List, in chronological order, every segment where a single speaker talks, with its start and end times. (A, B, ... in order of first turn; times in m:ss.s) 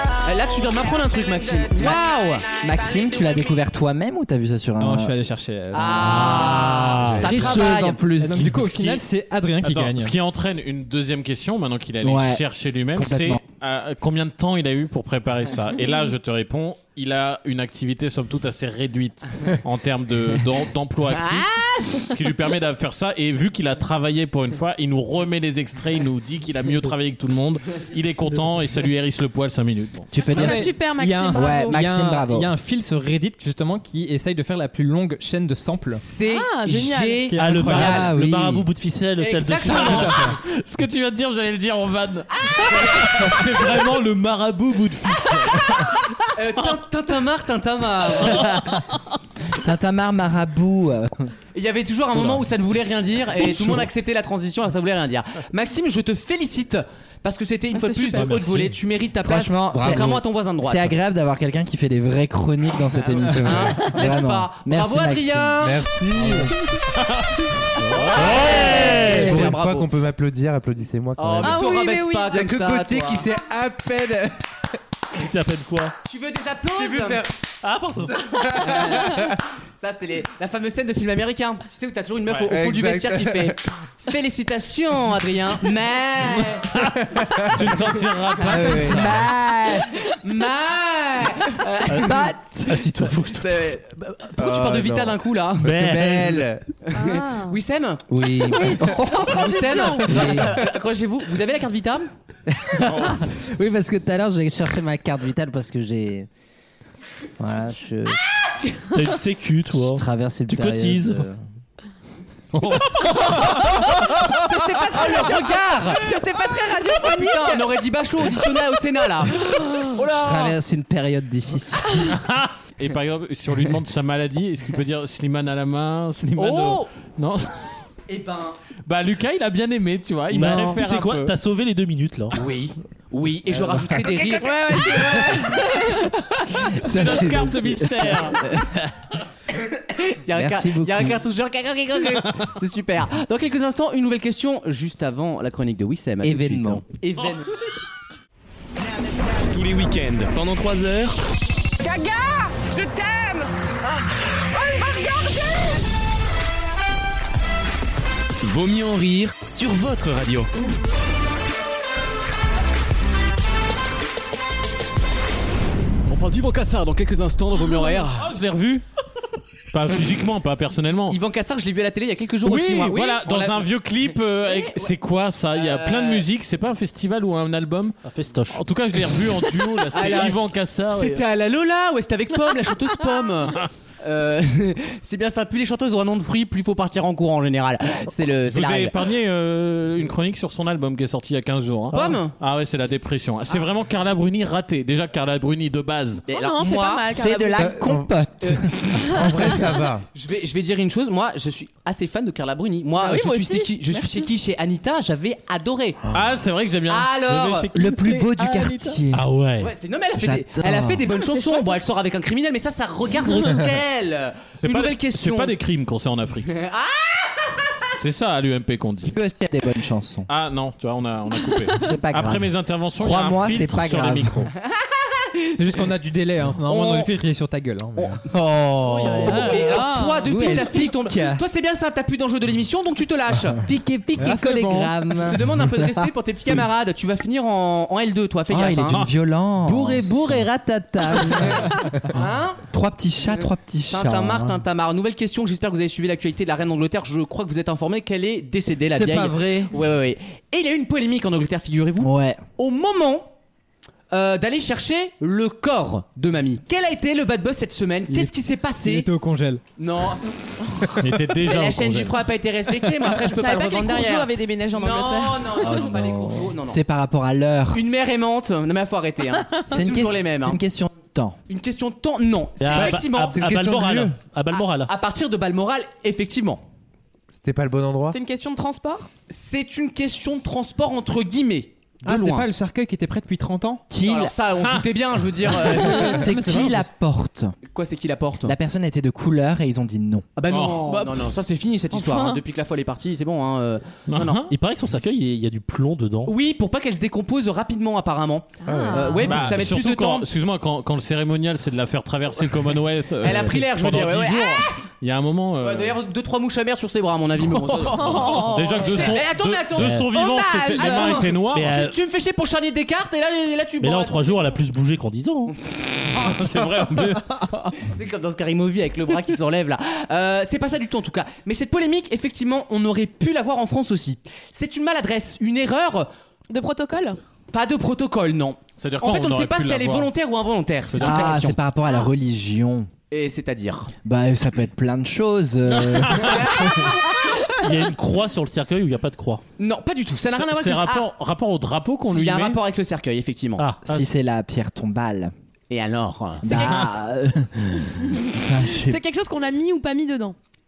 0:00.2-0:02.5 A
0:02.6-0:05.1 B
0:04.8-0:06.7 C
0:05.7-0:08.0 A
0:06.1-0:07.2 D
0:06.9-0:07.8 E
0:07.3-0:08.6 F
0:08.2-0:10.1 C
0:08.4-0:09.0 G
0:09.6-0:30.1 G
0:12.0-0:12.4 B
0:13.0-0:13.4 B
0:21.2-0:22.0 A
0:30.1-0:30.7 B
0:30.2-0:31.8 H
0:30.3-0:36.0 C
0:31.3-0:32.5 B
0:36.0-0:38.2 A
0:36.2-0:37.3 H
0:37.3-0:38.1 C
0:37.4-0:40.1 D
0:37.8-0:38.7 F
0:39.2-0:40.3 A
0:39.7-0:40.4 C
0:39.7-0:46.0 G
0:42.5-0:43.5 A
0:46.4-0:48.8 A
0:49.5-0:51.3 B
0:51.5-1:01.0 A
0:53.4-0:53.8 B
0:57.7-0:58.3 H
0:58.2-0:58.7 D
0:59.2-1:05.7 B
1:03.1-1:05.9 A
1:03.2-1:03.9 E
1:05.6-1:06.6 E
1:07.8-1:09.9 A
1:08.0-1:09.2 G
1:08.1-1:09.3 D
1:08.9-1:11.8 E
1:11.2-1:13.3 A
1:11.4-1:12.3 H
1:12.3-1:14.4 E
1:15.1-1:15.9 D
1:16.0-1:17.3 A
1:16.7-1:17.3 E
1:17.6-1:18.6 D
1:18.2-1:19.1 E
1:18.6-1:26.8 A
1:22.4-1:23.6 E
1:27.1-1:27.5 E
1:27.5-1:29.3 G
1:28.4-1:29.3 A
1:28.7-1:29.9 B
1:30.0-1:32.4 A
1:31.9-1:33.6 D
1:32.0-1:32.8 B
1:33.2-1:35.8 A
1:34.4-1:36.6 E
1:35.6-1:36.5 D
1:36.8-1:38.1 A
1:36.9-1:37.6 H
1:38.1-1:39.2 F
1:38.4-1:40.5 H
1:38.6-1:42.1 A
1:40.1-1:40.5 F
1:42.5-1:46.3 F
1:42.9-1:43.2 G
1:47.4-1:48.2 F
1:48.9-1:51.2 D
1:49.8-1:51.4 F
1:52.6-1:53.0 G
1:53.2-1:53.8 A
1:53.3-1:57.7 H
1:54.8-1:56.2 A
1:57.1-2:00.6 A
1:59.4-2:00.0 H
2:00.1-2:02.0 F
2:02.1-2:07.5 G
2:06.4-2:06.9 A
2:08.1-2:08.6 A
2:08.9-2:11.3 G
2:10.3-2:12.4 D
2:12.3-2:15.4 A
2:14.3-2:16.2 H
2:16.8-2:18.4 G
2:18.4-2:18.8 A
2:19.8-2:27.5 A
2:20.3-2:21.2 F
2:26.2-2:26.8 F
2:28.8-2:31.2 I
2:38.4-2:40.5 I
2:46.1-2:48.3 A
2:48.1-2:48.8 G
2:49.7-2:51.2 G
2:51.1-2:53.7 A
2:52.4-2:58.0 G
2:54.4-2:54.9 A
2:55.5-2:56.2 A
2:58.0-2:58.7 D
2:58.5-3:01.2 G
2:59.9-3:09.0 A
3:08.5-3:16.3 G
3:11.9-3:12.4 A
3:16.3-3:17.1 A
3:16.3-3:17.8 H
3:17.1-3:18.7 B
3:17.6-3:20.0 E
3:18.4-3:18.7 A
3:19.0-3:19.6 H
3:20.1-3:26.0 A
3:23.0-3:24.3 H
3:26.1-3:28.6 G
3:26.9-3:27.7 A
3:27.7-3:29.2 B
3:28.0-3:29.7 D
3:29.6-3:35.5 A
3:30.2-3:31.1 B
3:31.1-3:31.8 H
3:34.6-3:36.5 G
3:36.5-3:37.4 A
3:38.0-3:39.2 G
3:39.1-3:40.3 B
3:40.3-3:44.5 G
3:41.8-3:44.5 B
3:44.8-3:45.5 A
3:45.6-3:48.2 C
3:46.7-3:47.1 A
3:48.3-3:49.3 F
3:49.0-3:50.6 H
3:49.1-3:53.6 A
3:50.3-3:51.4 F
3:50.3-3:50.6 B
3:53.6-3:55.4 F
3:54.2-3:55.0 C
3:55.2-3:59.0 A
3:58.5-4:00.5 B
3:59.6-4:01.7 F
4:01.6-4:02.6 A
4:02.7-4:04.6 B
4:03.9-4:13.3 A
4:08.9-4:09.5 B
4:09.0-4:09.6 F
4:12.0-4:12.4 B
4:14.1-4:19.1 A
4:18.1-4:19.6 C
4:19.8-4:26.8 A
4:21.0-4:22.2 G
4:23.3-4:25.9 H
4:25.9-4:26.4 F
4:26.6-4:27.8 B
4:27.7-4:30.6 A
4:29.7-4:31.4 B
4:31.5-4:33.4 A
4:32.6-4:34.9 D
4:32.8-4:34.2 E
4:34.6-4:36.6 A
4:37.3-4:38.2 E
4:38.1-4:39.1 H
4:39.3-4:42.5 A
4:42.0-4:43.8 C
4:43.9-4:44.3 B
4:44.0-4:46.3 A
4:45.8-4:47.5 B
4:46.2-4:46.9 C
4:47.7-4:48.6 A
4:48.4-4:50.3 B
4:50.4-4:54.5 A
4:50.5-4:50.8 G
4:50.8-4:51.3 H
4:51.9-4:52.4 H
4:54.1-4:54.5 G
4:54.5-4:56.3 D
4:56.3-5:00.3 A
4:58.6-4:59.3 H
4:59.2-5:06.0 G
5:03.2-5:04.7 A
5:05.6-5:14.6 A
5:07.9-5:09.2 H
5:07.9-5:11.8 G
5:09.8-5:10.1 D
5:10.1-5:11.3 H
5:11.5-5:12.0 D
5:13.8-5:15.6 D
5:16.2-5:17.4 G
5:17.8-5:26.1 A
5:26.5-5:27.2 H
5:27.5-5:31.6 A
5:28.8-5:30.1 G
5:30.9-5:31.5 G
5:31.0-5:32.9 B
5:33.1-5:33.9 A
5:34.0-5:36.9 B
5:35.8-5:36.4 G
5:36.2-5:36.9 A
5:37.5-5:39.4 D
5:39.6-5:41.1 A
5:40.3-5:42.6 G
5:42.1-5:43.6 A
5:43.6-5:44.1 D
5:43.8-5:45.3 B
5:45.7-5:46.7 A
5:46.4-5:46.8 H
5:46.4-5:49.0 B
5:48.0-5:50.4 H